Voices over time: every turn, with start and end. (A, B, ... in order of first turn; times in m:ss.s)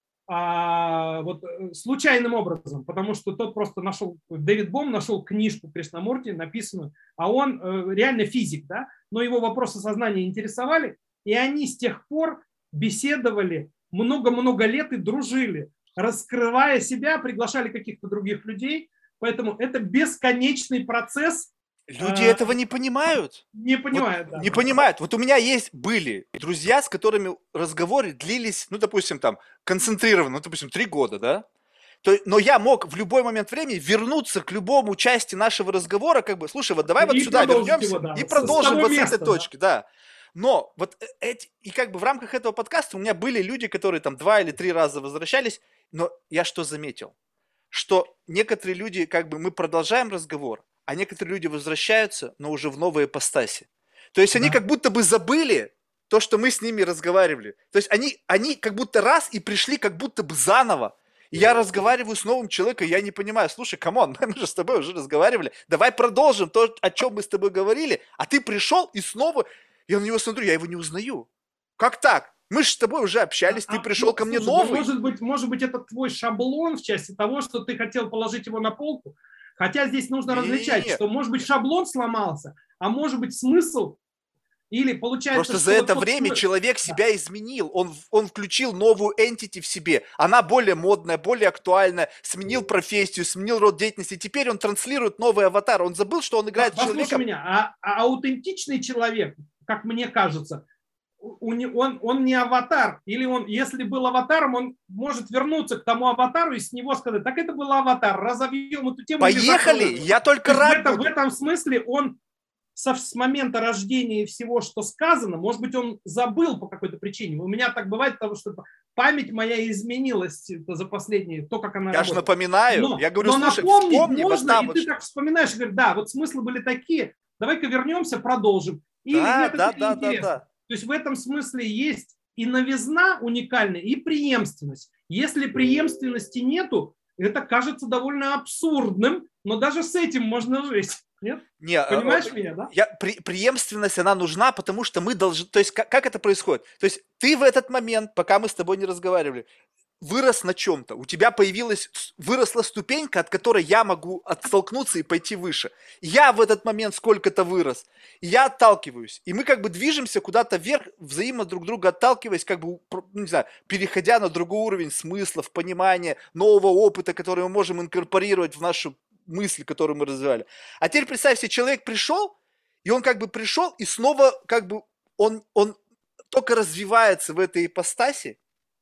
0:00.3-0:22.5 A
0:21.9-0:31.4 B
0:23.5-0:24.7 A
0:32.0-0:47.1 B
0:37.0-0:39.4 A
0:47.7-1:14.9 B
1:13.5-1:24.0 A
1:20.3-1:21.0 B
1:24.7-1:27.0 A
1:25.3-1:37.2 B
1:36.6-1:40.6 A
1:41.2-1:52.2 A
1:49.2-1:51.1 B
1:52.7-2:22.7 A
2:01.9-2:04.9 B
2:09.1-2:10.4 B
2:21.6-2:29.4 B
2:30.0-2:55.8 B
2:56.3-2:58.4 B